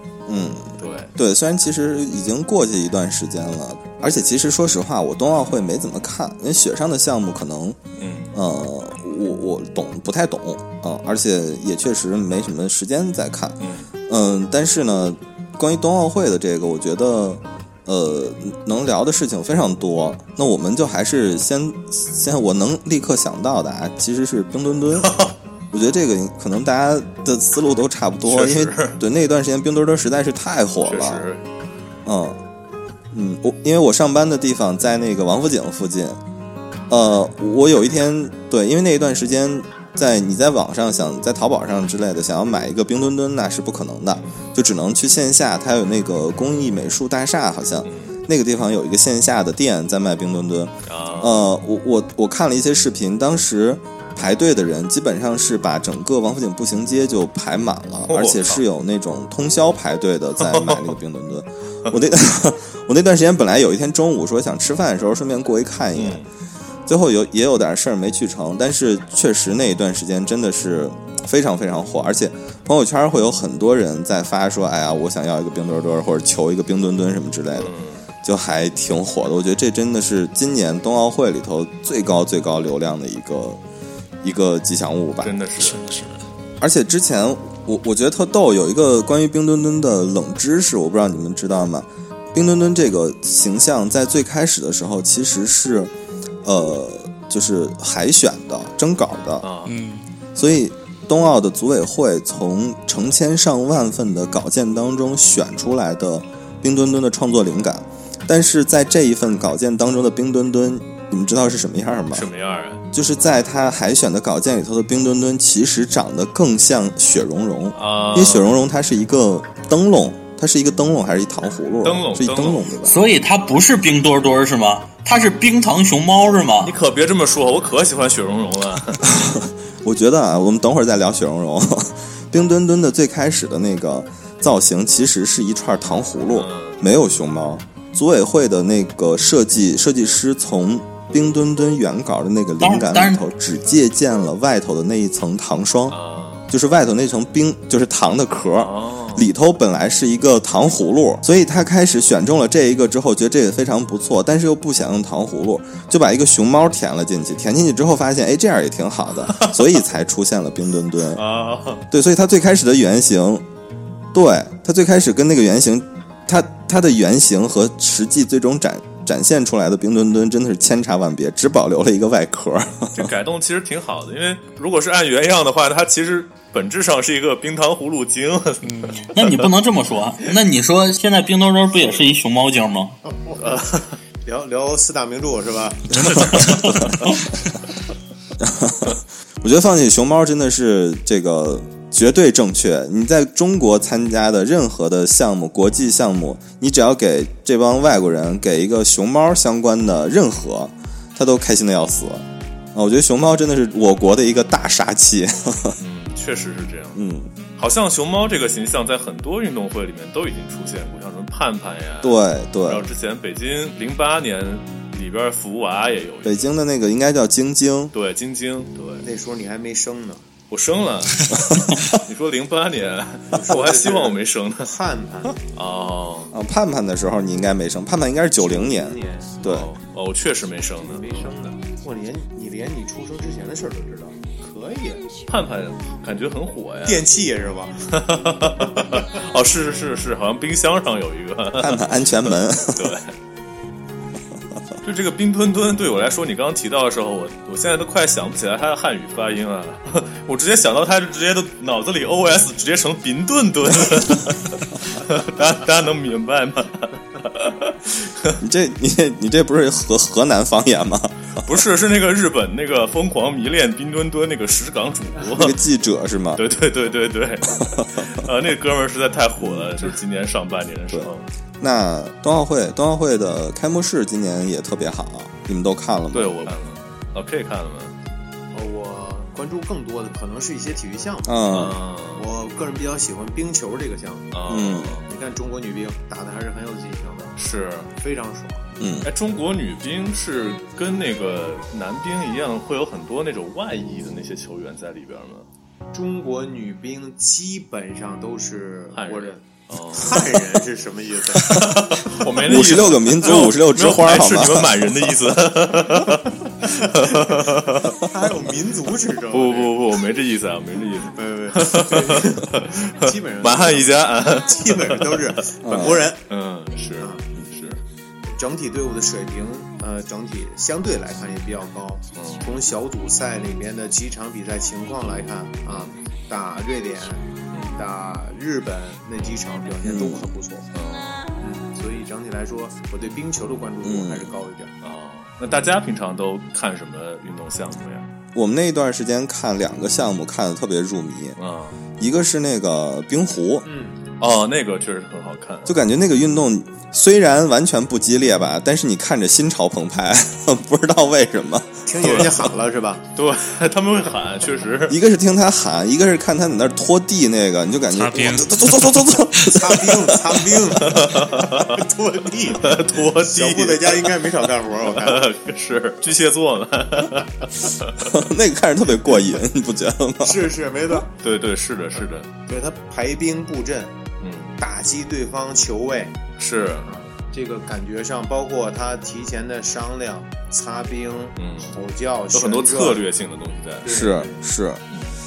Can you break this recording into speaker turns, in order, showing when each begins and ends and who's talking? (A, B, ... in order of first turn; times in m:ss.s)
0:00.3-0:07.8 A
0:00.8-0:01.1 B
0:08.0-0:08.3 B
0:08.3-0:25.2 A
0:13.6-0:13.9 B
0:25.0-0:25.3 B
0:25.7-0:31.2 A
0:28.2-0:29.0 B
0:30.8-0:31.4 B
0:32.0-0:32.4 A
0:33.1-0:36.2 A
0:36.9-1:06.2 A
0:47.8-0:48.2 B
0:50.8-0:51.4 B
0:58.0-0:58.6 B
1:00.4-1:00.9 B
1:06.0-1:06.3 B
1:06.9-1:17.7 A
1:17.6-1:18.0 B
1:18.2-1:23.6 A
1:24.2-1:25.3 A
1:25.2-1:25.8 B
1:25.6-1:26.2 C
1:26.6-1:35.9 A
1:36.4-1:39.5 A
1:39.4-1:39.8 B
1:39.6-1:40.1 C
1:40.3-1:52.3 A
1:52.1-1:52.8 B
1:52.9-2:03.0 A
1:57.7-1:58.5 B
2:01.8-2:02.7 B
2:02.8-2:06.7 D
2:06.6-2:09.1 B
2:09.1-2:26.0 A
2:16.3-2:16.8 B
2:22.6-2:23.2 D
2:25.9-2:26.5 B
2:26.5-2:41.2 A
2:28.5-2:29.3 B
2:41.2-2:41.8 B
2:41.9-2:43.4 A
2:44.1-2:53.0 A
2:52.9-2:59.5 B
2:58.6-2:59.1 C
2:59.1-3:03.0 D
3:03.0-3:06.0 E
3:03.4-3:03.9 B
3:05.9-3:07.2 C
3:06.2-3:06.9 A
3:08.4-3:25.8 A
3:25.8-3:27.0 B
3:26.9-3:27.3 A
3:27.6-3:36.4 B
3:32.0-3:32.9 A
3:36.2-3:37.9 A
3:37.9-3:39.1 B
3:39.0-3:40.2 E
3:40.5-3:41.3 B
3:41.8-3:44.7 B
3:43.3-3:45.4 E
3:45.5-3:46.3 B
3:46.3-3:49.7 A
3:48.4-3:49.4 E
3:49.4-3:51.3 B
3:50.8-3:55.1 E
3:55.3-3:57.1 B
3:56.8-3:57.8 E
3:57.9-4:03.1 B
4:01.6-4:02.9 A
4:04.8-4:18.4 B
4:18.4-4:21.5 A
4:21.4-4:25.6 B
4:25.3-4:26.4 A
4:26.4-4:31.2 B
4:29.4-4:29.8 A
4:31.6-4:36.4 A
4:36.1-4:38.0 B
4:38.5-4:44.3 E
4:41.2-4:41.8 A
4:41.5-4:42.3 B
4:44.3-4:45.1 B
4:44.5-4:44.9 A
4:45.0-4:47.3 E
4:47.4-4:47.9 B
4:48.0-4:48.7 E
4:48.8-4:49.1 A
4:49.0-4:55.5 B
4:55.9-5:01.7 E
4:58.9-5:00.4 B
5:01.4-5:08.0 B
5:02.4-5:04.8 A
5:06.8-5:07.4 E
5:08.0-5:09.7 E
5:09.3-5:15.4 B
5:11.1-5:16.2 E
5:15.6-5:16.1 A
5:16.3-5:17.8 B
5:17.0-5:17.2 E
5:18.3-5:30.7 E
5:22.2-5:22.5 B
5:25.7-5:26.0 B
5:27.5-5:27.8 B
5:29.8-5:30.2 A
5:30.7-5:31.2 B
5:31.4-5:34.7 E
5:33.8-5:34.3 A
5:34.8-5:38.1 B
5:38.3-5:41.4 A
5:41.4-5:41.8 B
5:42.0-5:43.6 A
5:43.6-5:44.0 E
5:44.2-5:45.8 B
5:45.6-5:51.8 A
5:51.8-5:53.0 E
5:52.0-5:52.5 B
5:53.2-5:55.0 B
5:54.9-6:00.5 A
5:57.9-5:58.9 C
5:59.3-6:05.3 E
6:00.8-6:01.9 B
6:02.4-6:04.3 B
6:04.8-6:08.1 B
6:08.0-6:10.5 A
6:10.2-6:11.1 E
6:11.2-6:12.3 B
6:12.5-6:14.0 E
6:14.2-6:14.6 B
6:14.6-6:16.2 E
6:16.4-6:16.9 B
6:16.8-6:23.0 E
6:21.4-6:21.8 B
6:22.3-6:23.9 B
6:23.8-6:24.4 E
6:23.8-6:24.8 A